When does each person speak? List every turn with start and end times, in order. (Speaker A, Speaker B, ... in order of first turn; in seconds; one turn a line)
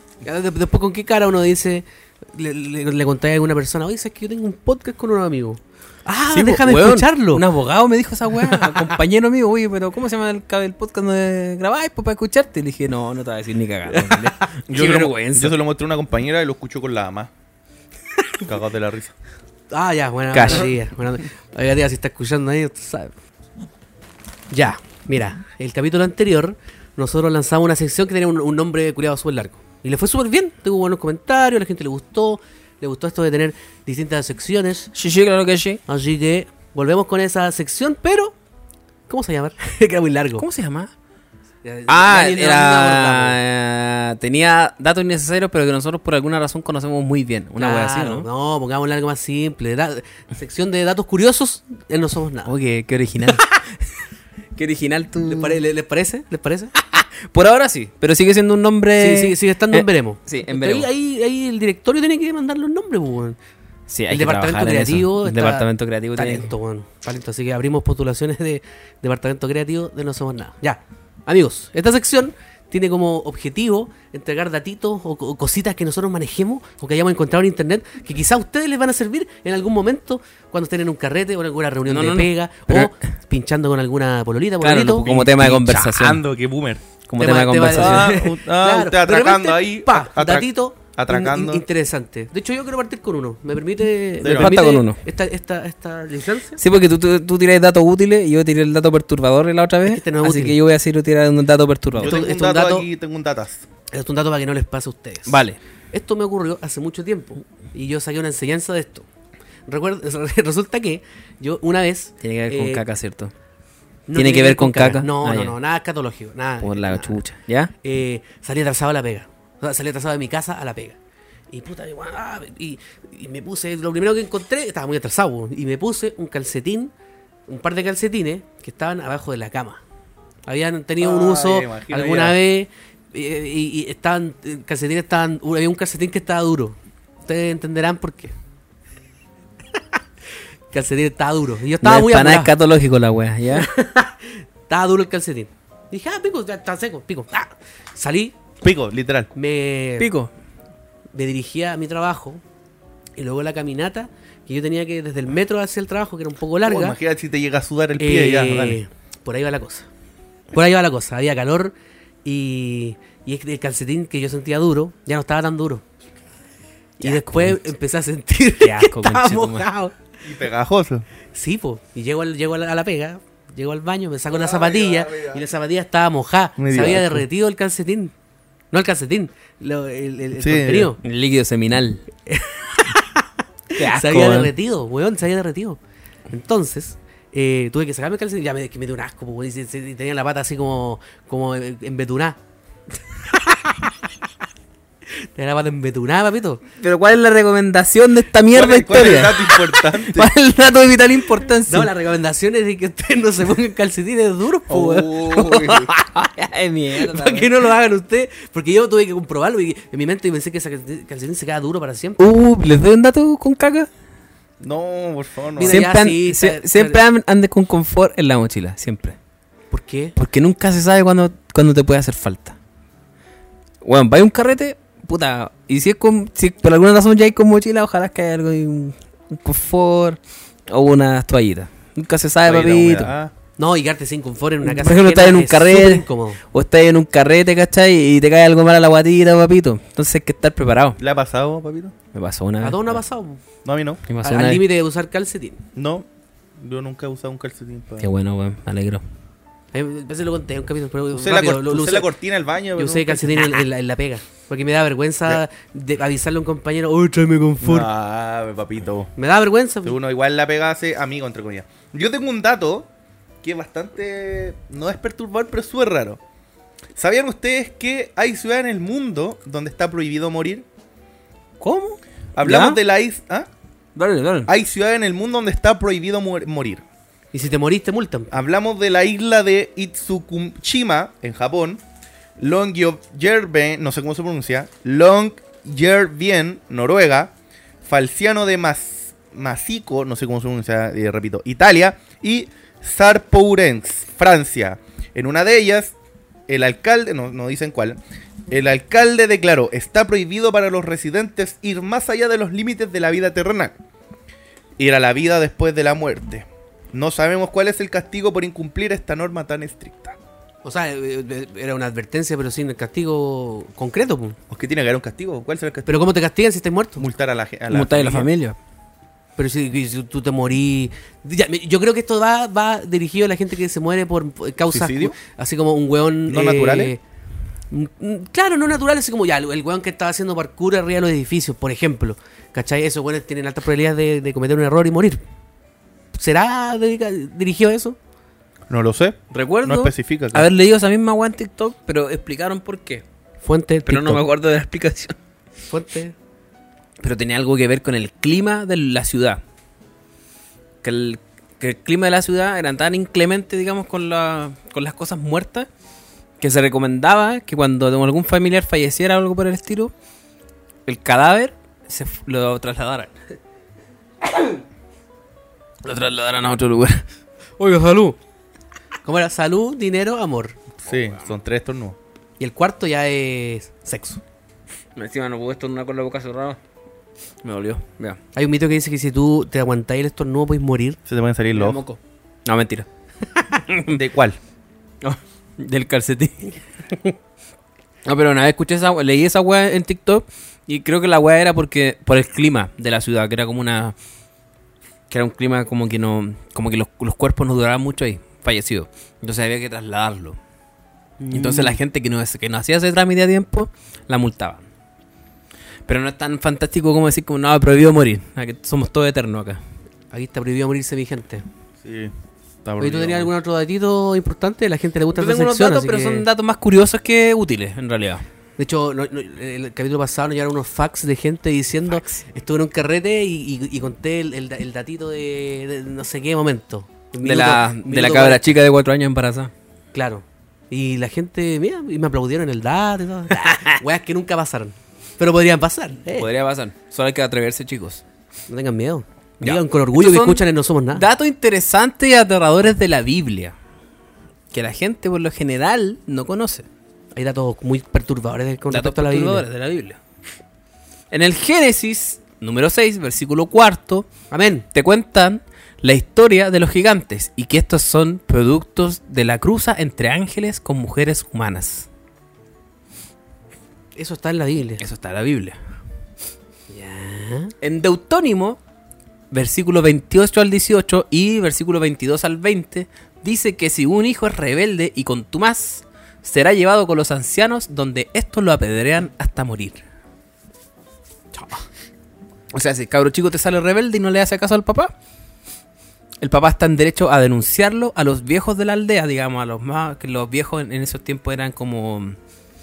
Speaker A: 0.2-7.4
Speaker B: 6.3-15.6
Speaker A: 8.3-9.0
Speaker A: 13.9-14.5
Speaker C: 14.7-17.3
Speaker C: 18.4-19.1
Speaker A: 19.7-23.1
Speaker B: 20.3-20.7
Speaker A: 24.5-34.9
Speaker B: 34.9-35.8
Speaker A: 35.9-38.3
Speaker A: 39.1-40.4
Speaker B: 40.4-40.9
Speaker A: 41.6-43.4
Speaker B: 41.9-48.2
Speaker A: 47.6-52.5
Speaker B: 52.4-53.8
Speaker B: 54.5-55.6
Speaker A: 55.2-56.7
Speaker B: 56.8-60.9
Speaker A: 59.0-63.4
Speaker B: 63.9-66.5
Speaker A: 64.1-85.0
Speaker B: 81.9-82.9
Speaker B: 84.6-86.2
Speaker C: 85.0-86.8
Speaker B: 87.1-88.1
Speaker A: 87.2-96.6
Speaker C: 87.7-91.6
Speaker C: 94.2-94.6
Speaker B: 94.2-95.0
Speaker B: 96.6-102.2
Speaker A: 99.8-100.5
Speaker C: 101.9-103.6
Speaker A: 102.0-102.8
Speaker A: 103.9-105.4
Speaker B: 105.2-105.6
Speaker A: 105.9-109.0
Speaker A: 109.7-112.8
Speaker B: 112.2-113.3
Speaker A: 114.1-117.2
Speaker B: 114.1-115.5
Speaker B: 116.6-117.7
Speaker A: 117.8-121.0
Speaker A: 121.5-126.9
Speaker A: 127.5-129.8
Speaker A: 130.4-138.3
Speaker C: 131.0-132.4
Speaker A: 140.7-142.5
Speaker B: 141.8-143.7
Speaker A: 143.5-148.3
Speaker C: 148.6-149.3
Speaker A: 149.3-150.1
Speaker B: 150.0-150.3
Speaker A: 151.1-152.4
Speaker A: 153.2-157.0
Speaker C: 156.6-158.8
Speaker A: 158.0-159.9
Speaker A: 160.5-165.8
Speaker B: 167.0-167.7
Speaker A: 167.0-169.9
Speaker B: 168.6-169.7
Speaker C: 170.2-171.1
Speaker A: 171.3-178.1
Speaker C: 174.3-175.4
Speaker C: 176.6-177.2
Speaker A: 178.7-181.0
Speaker C: 180.4-180.9
Speaker B: 181.0-182.0
Speaker A: 182.3-183.2
Speaker B: 183.7-184.5
Speaker A: 183.7-185.8
Speaker A: 186.3-192.4
Speaker A: 195.3-196.6
Speaker B: 196.8-201.9
Speaker C: 198.5-200.3
Speaker A: 201.7-206.0
Speaker C: 204.7-205.9
Speaker B: 206.2-207.5
Speaker A: 206.9-212.2
Speaker B: 212.2-213.9
Speaker C: 214.6-215.9
Speaker A: 215.6-217.0
Speaker B: 215.7-219.2
Speaker A: 219.7-220.1
Speaker B: 220.2-222.6
Speaker B: 223.8-233.1
Speaker C: 232.4-233.3
Speaker A: 233.6-236.4
Speaker B: 234.6-241.0
Speaker C: 241.0-241.9
Speaker B: 242.1-243.0
Speaker A: 242.6-243.4
Speaker C: 243.6-244.0
Speaker B: 244.1-244.6
Speaker A: 244.2-245.6
Speaker C: 245.8-248.1
Speaker B: 248.0-249.0
Speaker A: 249.7-252.1
Speaker C: 251.1-253.5
Speaker A: 252.8-257.9
Speaker C: 257.6-259.1
Speaker A: 259.1-259.9
Speaker C: 259.8-262.9
Speaker C: 263.4-266.2
Speaker C: 266.9-270.6
Speaker B: 271.6-272.8
Speaker C: 272.4-273.5
Speaker B: 273.9-274.5
Speaker C: 274.5-276.8
Speaker A: 277.3-278.4
Speaker C: 278.3-281.8
Speaker C: 282.4-295.9
Speaker C: 296.5-303.7
Speaker C: 304.8-310.2
Speaker A: 310.6-314.4
Speaker C: 314.5-316.1
Speaker A: 315.9-317.0
Speaker C: 317.0-318.3
Speaker B: 317.7-318.6
Speaker A: 319.4-327.0
Speaker C: 324.7-325.2
Speaker C: 326.3-326.9
Speaker A: 327.7-335.2
Speaker A: 336.1-338.0
Speaker C: 338.7-340.5
Speaker B: 339.3-343.0
Speaker A: 343.4-344.2
Speaker B: 343.9-345.1
Speaker A: 345.7-346.1
Speaker B: 347.0-349.4
Speaker B: 350.8-355.7
Speaker B: 356.4-359.9
Speaker B: 360.9-363.1
Speaker B: 365.8-367.0
Speaker A: 367.6-368.2
Speaker A: 369.0-370.6
Speaker C: 370.8-372.0
Speaker A: 372.4-374.2
Speaker B: 374.9-376.6
Speaker B: 377.4-378.2
Speaker A: 378.3-381.0
Speaker C: 381.1-381.8
Speaker B: 381.5-382.9
Speaker B: 383.5-384.0
Speaker C: 383.9-384.4
Speaker B: 385.0-386.6
Speaker B: 388.0-393.9
Speaker B: 395.1-400.4
Speaker A: 401.2-401.8
Speaker B: 401.3-404.6
Speaker B: 405.9-409.6
Speaker A: 410.1-411.4
Speaker C: 411.8-413.3
Speaker A: 412.8-416.2
Speaker B: 415.1-418.2
Speaker A: 418.6-428.4
Speaker B: 427.2-429.5
Speaker A: 429.9-436.3
Speaker B: 433.4-433.8
Speaker B: 436.1-438.0
Speaker A: 438.5-441.1
Speaker B: 439.4-443.5
Speaker B: 444.5-446.6
Speaker A: 447.1-449.4
Speaker B: 448.7-450.0
Speaker B: 451.1-454.1
Speaker A: 454.3-454.6
Speaker B: 454.7-461.9
Speaker A: 463.9-464.8
Speaker B: 464.8-465.6
Speaker A: 466.7-467.5
Speaker B: 467.6-468.6
Speaker B: 469.3-479.8
Speaker A: 481.3-481.6
Speaker B: 482.5-484.9
Speaker B: 486.2-492.1